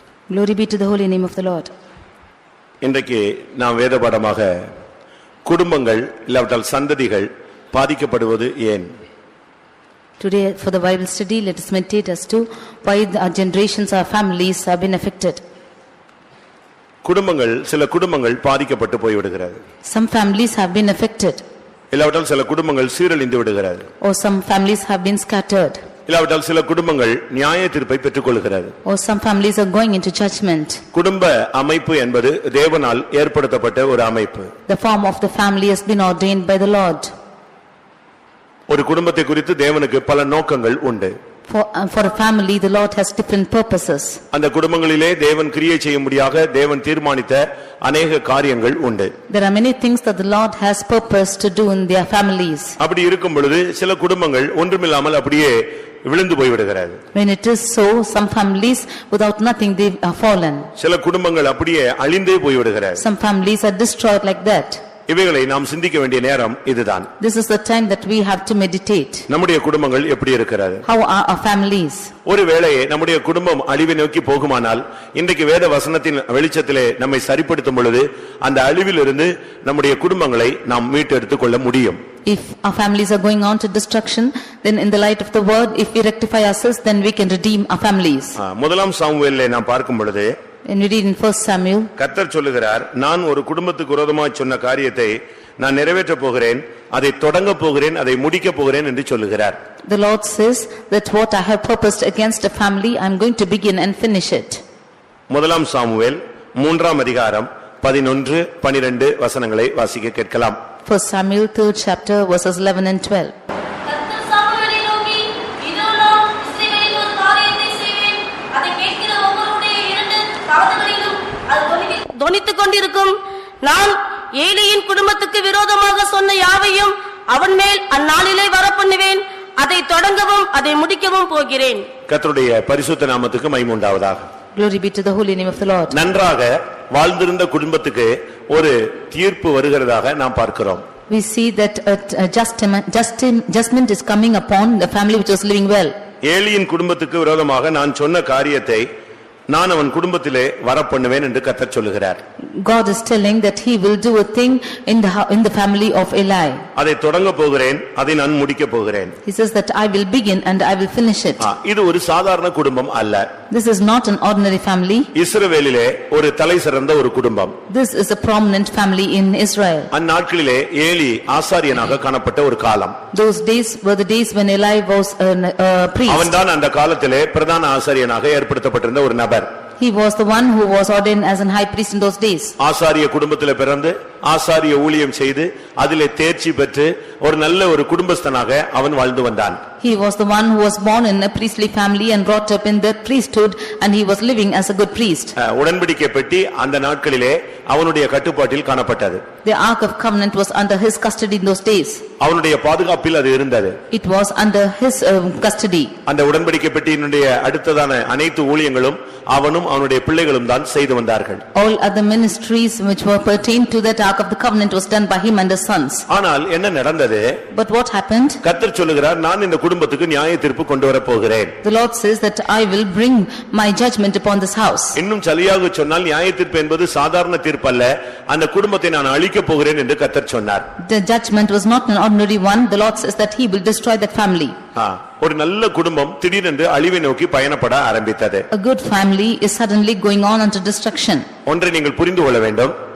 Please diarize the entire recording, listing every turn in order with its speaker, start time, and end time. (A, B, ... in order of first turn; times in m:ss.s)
0:00.3-0:01.7 A
0:02.8-0:04.7 B
0:05.4-0:08.9 B
0:10.2-0:15.4 A
0:17.0-0:19.6 B
0:19.8-0:21.4 A
0:21.9-0:23.8 B
0:24.0-0:25.8 A
0:26.1-0:28.7 B
0:28.8-0:30.8 A
0:30.9-0:34.5 B
0:34.7-0:37.1 A
0:38.7-0:41.1 B
0:41.5-0:44.2 A
0:44.3-0:49.1 B
0:49.3-0:52.8 A
0:52.8-0:57.0 B
0:57.1-1:00.7 A
1:00.8-1:03.0 B
1:03.0-1:04.8 A
1:05.1-1:07.1 B
1:07.2-1:09.2 A
1:09.3-1:10.8 B
1:10.8-1:12.1 A
1:12.2-1:22.0 B
1:22.2-1:28.4 A
1:28.4-1:30.3 B
1:30.6-1:31.9 A
1:32.0-1:39.6 B
1:39.8-1:44.6 A
1:45.3-1:50.6 B
1:50.8-1:53.3 A
1:53.8-2:11.9 C
2:12.1-2:14.2 B
2:14.5-2:16.0 A
2:15.9-2:20.8 B
2:21.1-2:25.9 A
2:26.2-2:28.9 B
2:29.5-2:32.2 B
2:32.6-2:36.6 A
2:36.8-2:39.1 B
2:39.2-2:41.5 A
2:41.4-2:43.3 B
2:43.5-2:45.1 A
2:45.1-2:47.5 B
2:47.7-2:49.9 A
2:49.9-2:53.0 B
2:53.1-2:56.3 A
2:56.1-2:59.5 B
2:59.8-3:02.5 A
3:02.6-3:09.6 B
3:09.8-3:15.3 A
3:15.4-3:19.2 B
3:19.4-3:22.0 A
3:22.2-3:23.8 B
3:23.9-3:25.9 A
3:26.0-3:31.4 B
3:31.5-3:36.0 A
3:36.1-3:37.4 B
3:37.5-3:38.4 A
3:38.4-3:41.5 B
3:41.6-3:45.0 A
3:45.0-3:50.6 B
3:50.8-3:54.6 A
3:54.8-3:58.5 B
3:58.5-4:01.3 A
4:01.4-4:02.7 B